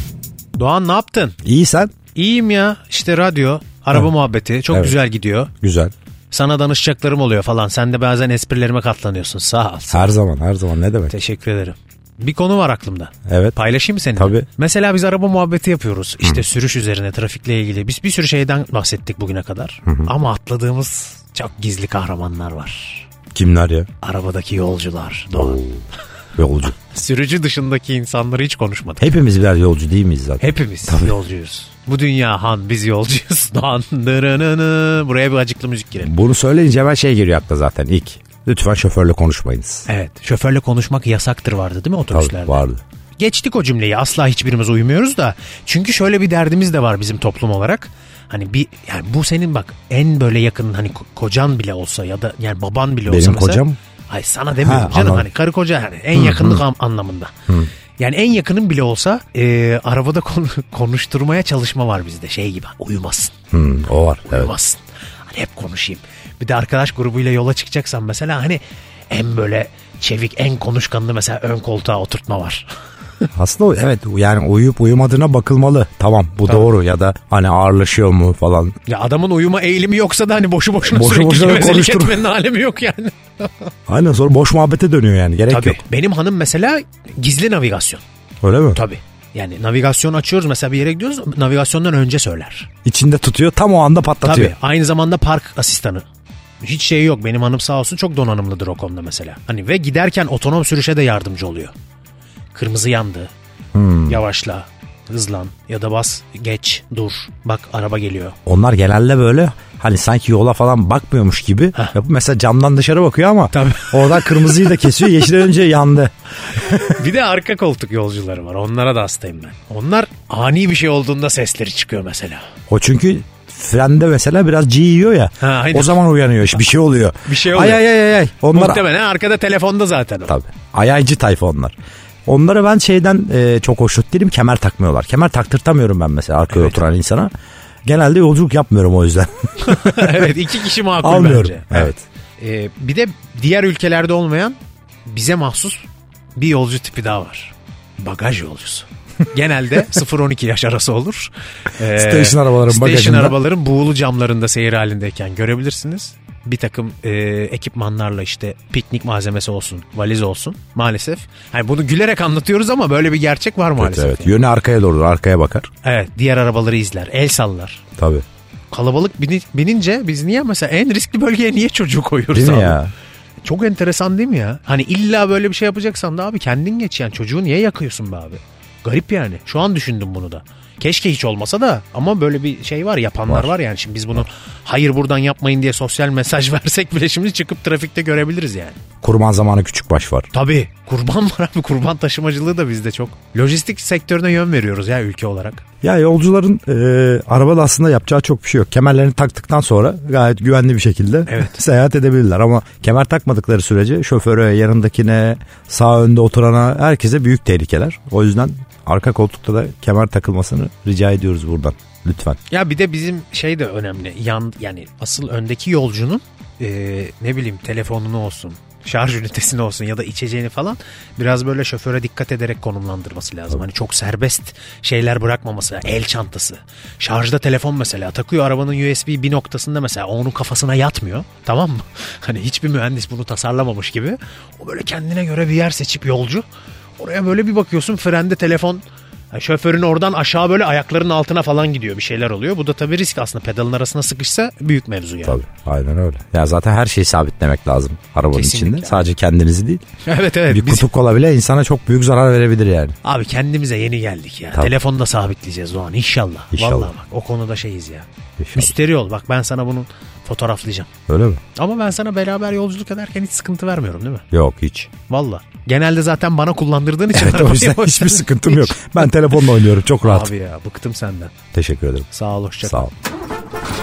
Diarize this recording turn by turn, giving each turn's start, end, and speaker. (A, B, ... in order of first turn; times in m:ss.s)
0:00.5-0:01.4 A
0:01.4-0:01.9 B
0:02.1-0:05.5 A
0:04.7-0:05.0 B
0:05.6-0:05.9 B
0:06.3-0:10.2 A
0:09.9-0:11.1 B
0:11.1-0:23.1 A
0:13.3-0:13.6 B
0:14.2-0:14.5 B
0:19.8-0:20.1 B
0:23.3-0:23.9 B
0:24.0-0:25.6 A
0:25.4-0:25.8 B
0:26.4-0:26.7 B
0:26.8-0:29.1 A
0:29.0-0:31.2 B
0:30.4-0:36.1 A
0:36.0-0:39.9 B
0:39.8-0:42.6 A
0:42.1-0:42.8 B
0:43.2-0:57.3 A
0:53.0-0:53.8 B
0:54.6-0:55.3 B
0:56.1-0:56.6 B
0:58.0-1:03.3 A
1:03.5-1:04.5 B
1:04.3-1:12.7 A
1:13.3-1:18.8 B
1:18.8-1:23.7 A
1:20.9-1:22.2 B
1:23.9-1:25.8 B
1:25.5-1:28.0 A
1:28.4-1:28.8 B
1:28.7-1:32.7 A
1:32.8-1:34.5 B
1:34.2-1:36.0 A
1:36.6-1:41.7 A
1:42.5-1:43.3 A
1:43.7-1:44.2 B
1:44.0-1:48.4 A
1:48.4-1:57.0 B
1:53.5-1:55.3 A
1:56.6-2:02.4 A
2:02.7-2:08.8 B
2:05.4-2:06.0 A
2:07.2-2:10.4 A
2:10.3-2:17.3 B
2:16.5-2:16.8 A
2:17.8-2:20.3 B
2:19.6-2:44.4 A
2:21.0-2:22.0 B
2:31.9-2:33.4 B
2:43.8-2:45.7 B
2:45.8-2:47.8 A
2:48.0-2:48.2 B
2:48.7-2:52.8 A
2:52.3-2:52.9 B
2:53.4-3:08.8 A
3:09.0-3:10.3 B
3:10.3-3:15.6 A
3:15.8-3:32.4 B
3:21.3-3:21.6 A
3:32.5-3:56.4 A
3:57.0-4:05.4 A
4:05.2-4:09.8 B
4:08.3-4:09.0 A
4:10.0-4:10.9 A
4:10.5-4:13.0 B
4:13.0-4:20.9 A
4:16.5-4:16.9 B
4:18.4-4:18.7 B
4:21.1-4:21.4 B
4:21.5-4:24.2 A
4:24.3-4:24.9 B
4:25.0-4:29.4 A
4:27.1-4:30.3 B
4:30.0-4:31.3 A
4:31.5-4:32.1 B
4:32.1-4:32.9 A
4:32.6-4:32.9 B